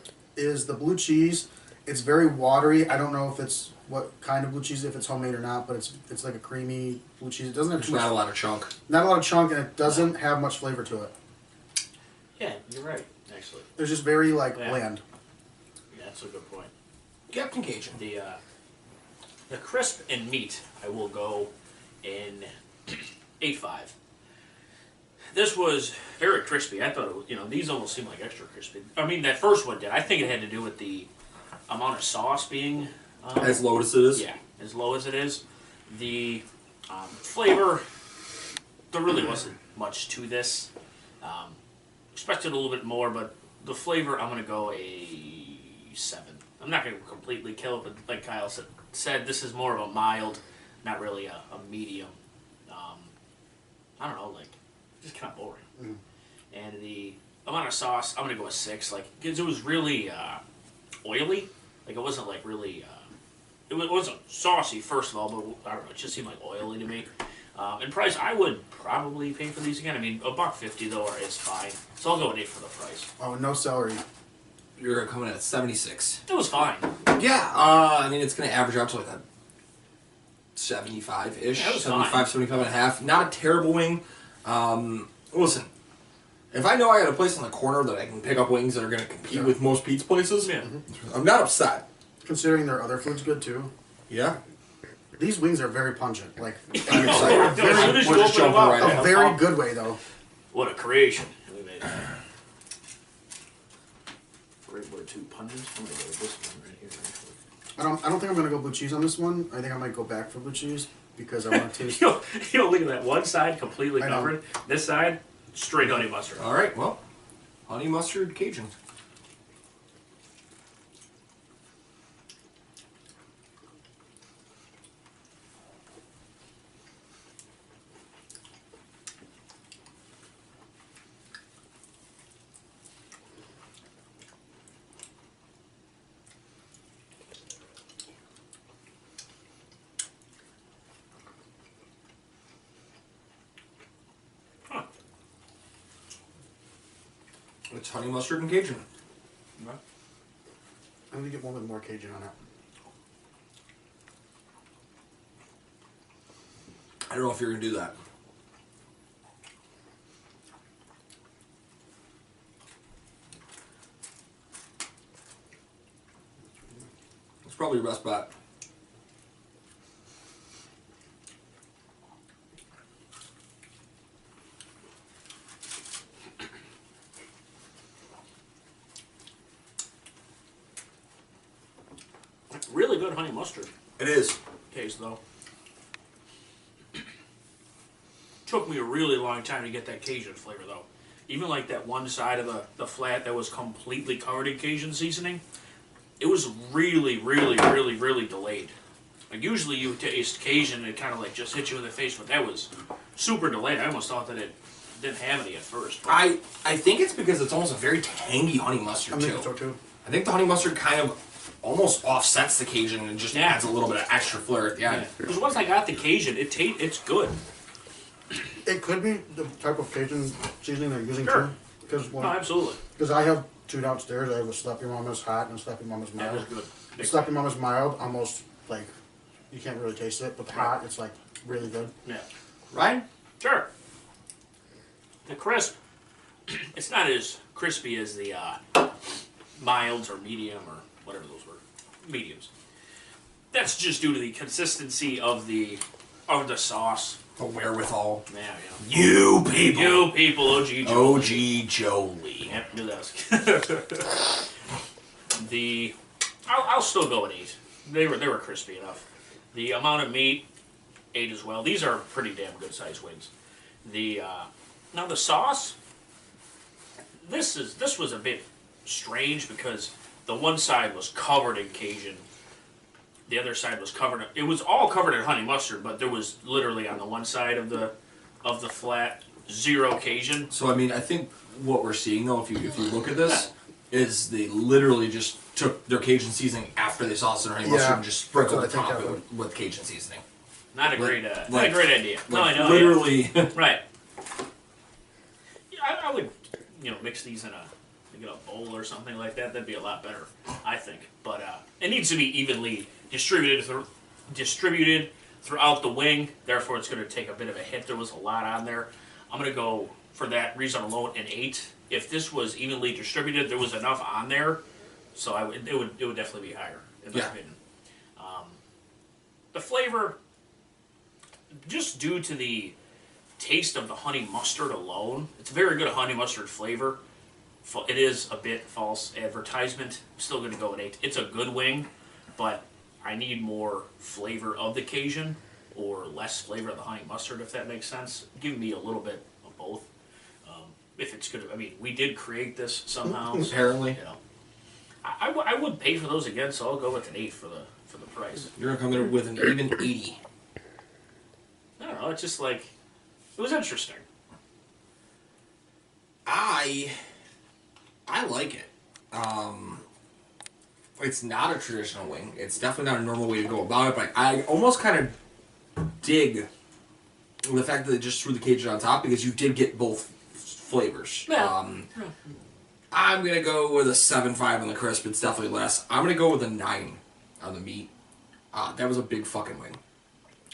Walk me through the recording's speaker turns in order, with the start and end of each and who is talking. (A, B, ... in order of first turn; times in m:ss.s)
0:00.4-0:08.2 A
0:07.8-0:08.7 B
0:08.9-0:11.1 A
0:12.4-0:13.7 C
0:13.8-0:15.0 A
0:14.5-0:14.8 C
0:15.9-0:16.7 C
0:17.3-0:18.0 B
0:18.0-0:18.4 C
0:19.5-0:21.5 C
0:22.0-0:23.9 C
0:25.3-0:31.1 C
0:31.7-0:37.8 C
0:33.4-0:34.2 B
0:38.9-0:40.7 C
0:41.2-0:41.6 C
0:42.1-0:52.2 C
0:52.7-0:53.1 C
0:54.0-0:55.6 C
0:56.5-1:00.4 C
1:01.0-1:03.1 C
1:03.7-1:13.1 C
1:13.2-1:14.0 A
1:14.8-1:16.2 B
1:16.3-1:16.9 C
1:17.1-1:19.2 B
1:20.6-1:25.7 B
1:21.5-1:22.4 C
1:26.5-1:31.8 B
1:30.4-1:30.7 C
1:32.2-1:33.7 A
1:34.1-1:34.4 B
1:35.2-1:40.0 A
1:36.7-1:39.4 C
1:36.9-1:39.2 B
1:40.5-1:42.0 C
1:44.7-1:47.4 C
1:47.8-1:52.1 A
1:51.6-1:56.4 C
1:54.0-1:54.3 A
1:56.4-1:57.0 B
1:57.7-1:58.7 B
2:27.7-2:28.8 B
2:31.1-2:32.3 A
2:37.1-2:38.0 B
2:47.4-2:48.3 B
3:02.5-3:03.7 C
3:04.0-3:04.4 B
3:04.7-3:05.2 C
3:08.5-3:15.4 C
3:16.2-3:18.7 C
3:19.3-3:26.2 C
3:26.1-3:29.5 B
3:29.1-3:29.8 A
3:30.0-3:35.1 B
3:33.3-3:33.7 C
3:34.8-3:37.4 C
3:38.6-3:42.4 A
3:41.2-3:41.5 C
3:42.2-3:42.8 C
3:43.0-3:46.4 A
3:46.2-3:47.3 C
3:47.0-3:48.9 A
3:49.5-3:51.9 A
3:52.7-3:53.0 B
3:53.4-3:53.7 C
3:55.3-3:55.8 C
3:56.5-3:58.9 C
3:59.6-4:02.5 C
4:03.5-4:07.2 C
4:07.4-4:08.2 B
4:08.3-4:08.9 C
4:08.8-4:10.2 B
4:09.6-4:11.4 C
4:10.8-4:12.6 B
4:12.5-4:14.3 C
4:15.3-4:20.5 C
4:21.1-4:23.3 C
4:23.8-4:25.8 C
4:27.2-4:32.2 C
4:33.3-4:40.5 C
4:40.5-4:50.2 B
4:47.6-4:49.2 A
4:50.7-4:53.8 C
4:50.9-4:53.5 B
4:55.7-5:14.6 C
5:15.1-5:17.6 C
5:18.2-5:18.6 C
5:19.5-5:20.2 C
5:21.6-5:22.8 C
5:23.4-5:27.0 C
5:27.6-5:39.9 C
5:40.4-5:44.2 C
5:43.4-5:44.0 B
5:45.0-5:48.5 C
5:48.6-5:50.2 B
5:51.8-5:52.7 C
5:53.4-5:54.0 C
5:56.3-5:57.0 B
5:58.1-5:59.8 B
6:01.0-6:05.2 B
6:05.8-6:06.5 B
6:07.4-6:11.9 B
6:11.3-6:12.1 C
6:12.9-6:17.9 B
6:18.5-6:19.8 B